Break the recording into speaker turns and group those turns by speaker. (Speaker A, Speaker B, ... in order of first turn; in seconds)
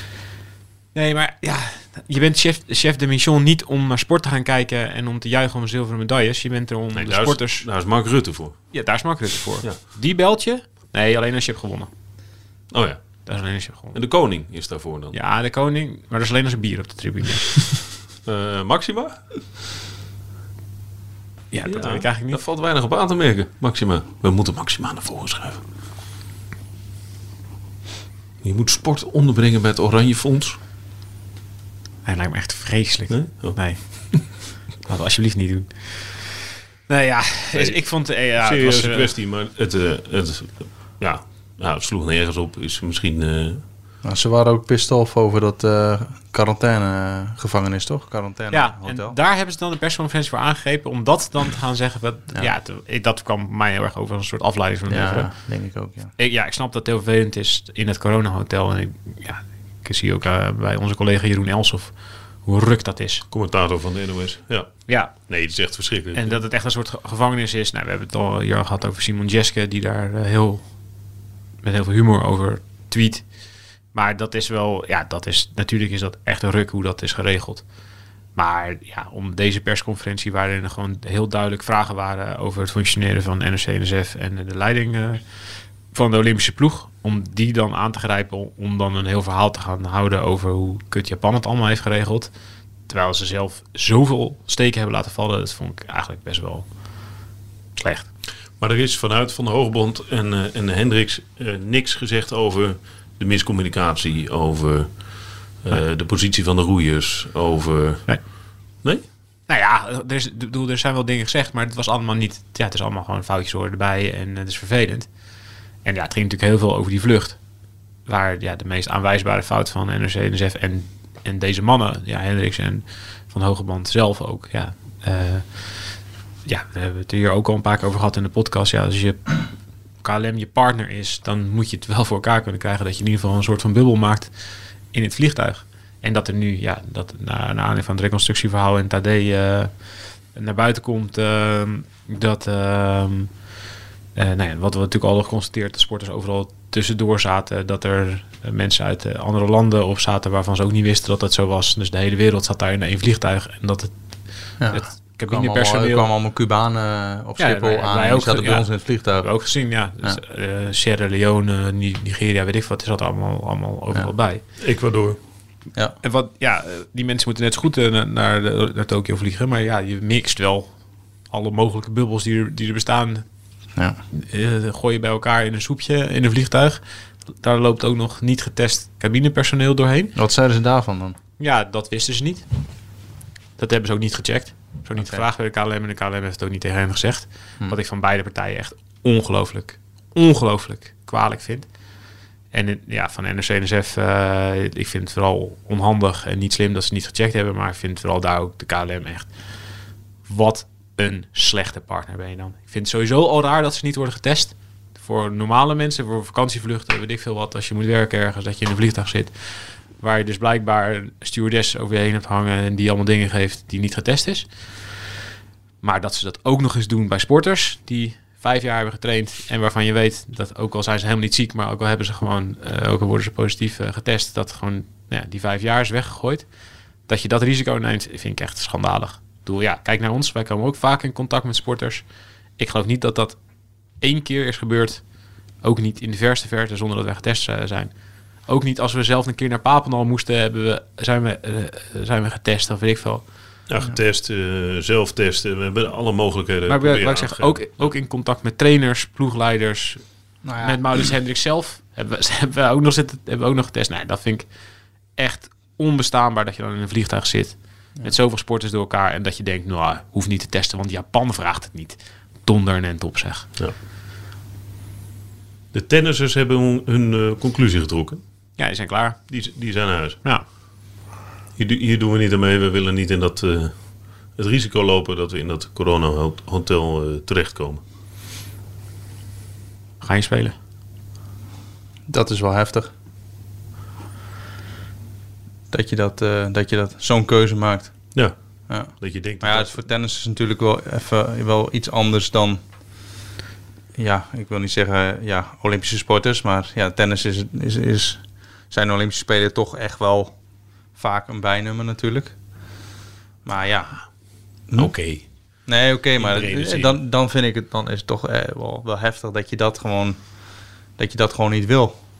Speaker A: 0.9-7.7, 8.7-11.9, 13.2-14.0, 15.1-17.8, 21.5-22.4, 32.0-36.4, 36.9-39.1, 48.5-55.5, 56.2-63.2, 64.9-65.3, 66.1-70.8, 71.6-73.3, 73.9-77.6, 78.4-85.2, 85.9-92.3, 92.9-96.7, 97.8-98.1, 109.5-115.1, 115.8-117.4, 118.1-143.4, 144.2-156.1, 157.4-164.4, 166.0-170.8, 171.3-173.2, 174.1-176.8, 177.4-180.1, 181.4-182.4, 183.6-191.7, 192.5-199.7, 200.2-214.8, 215.8-226.5, 227.1-232.1, 232.6-233.4, 234.0-235.0, 235.6-237.9, 238.4-243.3, 246.7-254.5, 255.2-263.5, 268.6-269.2, 280.0-280.6
Speaker B: 7.0-8.7, 12.7-13.2, 13.9-15.2, 18.2-19.3, 21.7-25.6, 28.4-30.6, 33.1-34.2, 37.5-43.6, 63.3-66.4, 98.6-108.2, 164.6-165.2, 243.7-247.9, 265.7-268.2, 269.3-270.2, 271.6-273.8, 274.4-277.8, 288.1-289.8, 304.8-305.2, 306.2-306.9
Speaker C: 44.0-49.2, 54.9-56.1, 154.6-160.2, 180.2-181.2, 185.0-185.2, 250.4-250.8, 282.1-282.9, 285.7-288.1, 288.7-292.6, 294.0-300.4, 301.0-302.4, 303.4-304.0, 304.7-304.9, 305.7-310.2, 311.0-312.0